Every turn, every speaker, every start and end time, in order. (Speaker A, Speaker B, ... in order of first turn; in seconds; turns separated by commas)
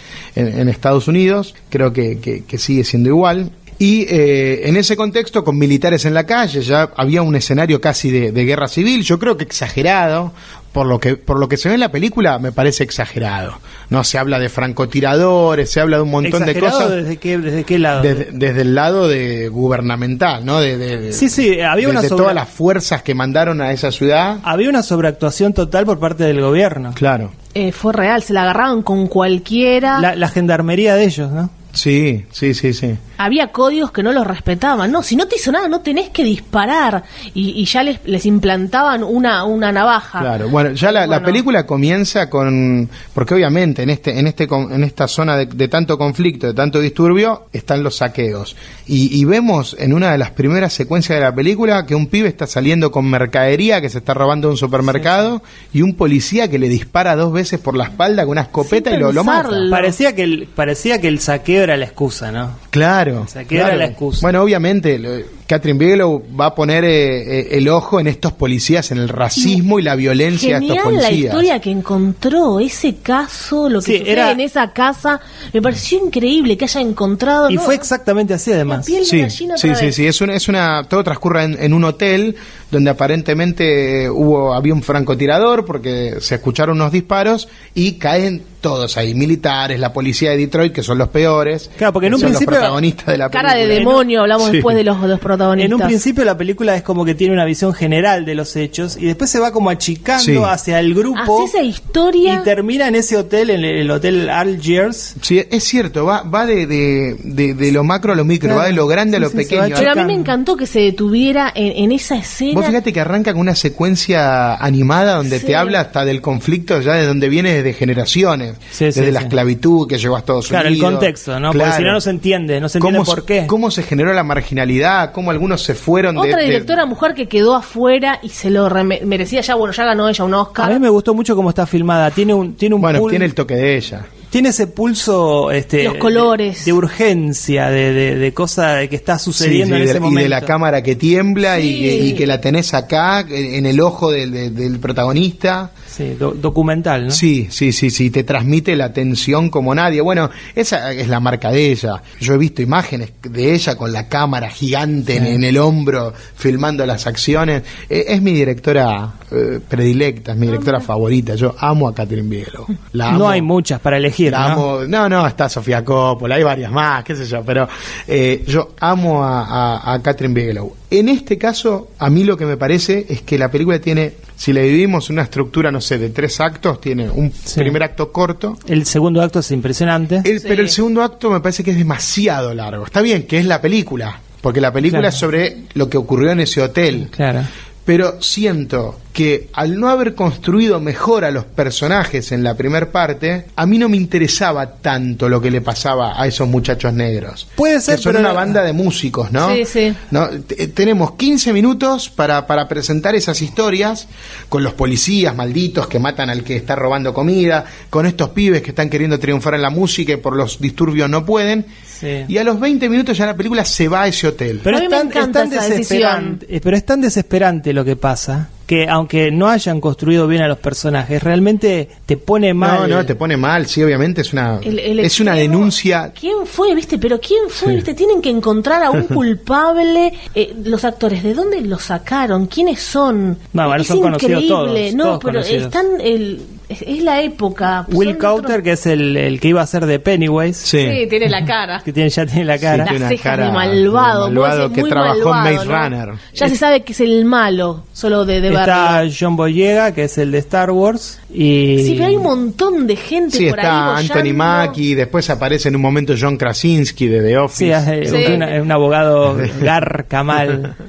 Speaker A: 0.3-17.0, Speaker B: 16.2-18.2, Speaker A: 18.0-24.4, Speaker B: 21.1-22.4, Speaker B: 24.4-27.0, Speaker A: 27.0-27.3, Speaker C: 27.5-30.1, Speaker B: 29.9-31.5, Speaker A: 31.7-33.0, Speaker C: 33.2-40.3, Speaker A: 40.2-59.7, Speaker C: 40.8-41.4, Speaker B: 54.9-55.2, Speaker C: 58.6-59.9, Speaker B: 59.7-62.6, Speaker A: 62.7-71.5, Speaker B: 63.3-64.3, Speaker C: 70.3-77.9, Speaker B: 73.8-74.4, Speaker B: 77.5-78.9, Speaker C: 78.7-80.0, Speaker A: 79.1-94.8, Speaker B: 91.8-92.8, Speaker C: 93.3-96.0, Speaker B: 93.7-94.0, Speaker B: 95.6-101.5, Speaker A: 100.2-100.5, Speaker C: 101.2-102.5, Speaker B: 102.2-105.2, Speaker A: 105.2-109.9, Speaker B: 108.4-110.3, Speaker C: 109.8-112.8, Speaker A: 112.5-122.0, Speaker C: 115.3-115.8, Speaker B: 118.7-119.4, Speaker B: 120.5-123.5, Speaker A: 122.8-126.7, Speaker C: 126.2-130.8, Speaker B: 130.6-133.3, Speaker A: 132.8-134.1, Speaker B: 134.3-140.5, Speaker C: 135.8-136.8, Speaker A: 139.4-145.7, Speaker C: 141.5-142.3, Speaker B: 145.9-147.2, Speaker A: 147.1-163.5, Speaker C: 160.5-160.8, Speaker B: 163.1-164.7, Speaker A: 164.3-178.6, Speaker B: 177.5-177.8, Speaker B: 178.7-180.3, Speaker A: 180.2-187.1, Speaker C: 180.4-180.7, Speaker B: 184.9-185.1, Speaker B: 187.1-187.5, Speaker A: 187.9-211.7, Speaker B: 197.6-198.6, Speaker C: 199.4-200.0, Speaker B: 211.9-212.3, Speaker A: 212.3-214.7, Speaker B: 214.7-223.1, Speaker C: 214.7-216.4, Speaker A: 222.6-226.1, Speaker C: 224.6-238.6, Speaker B: 233.5-235.8, Speaker B: 237.9-240.7, Speaker A: 240.6-241.0, Speaker C: 240.8-241.8, Speaker B: 241.8-242.9, Speaker A: 242.6-246.3, Speaker C: 242.8-249.0, Speaker B: 248.5-252.3, Speaker C: 251.8-254.8, Speaker A: 253.3-258.4, Speaker B: 257.6-260.7, Speaker C: 258.1-258.6, Speaker A: 259.3-259.7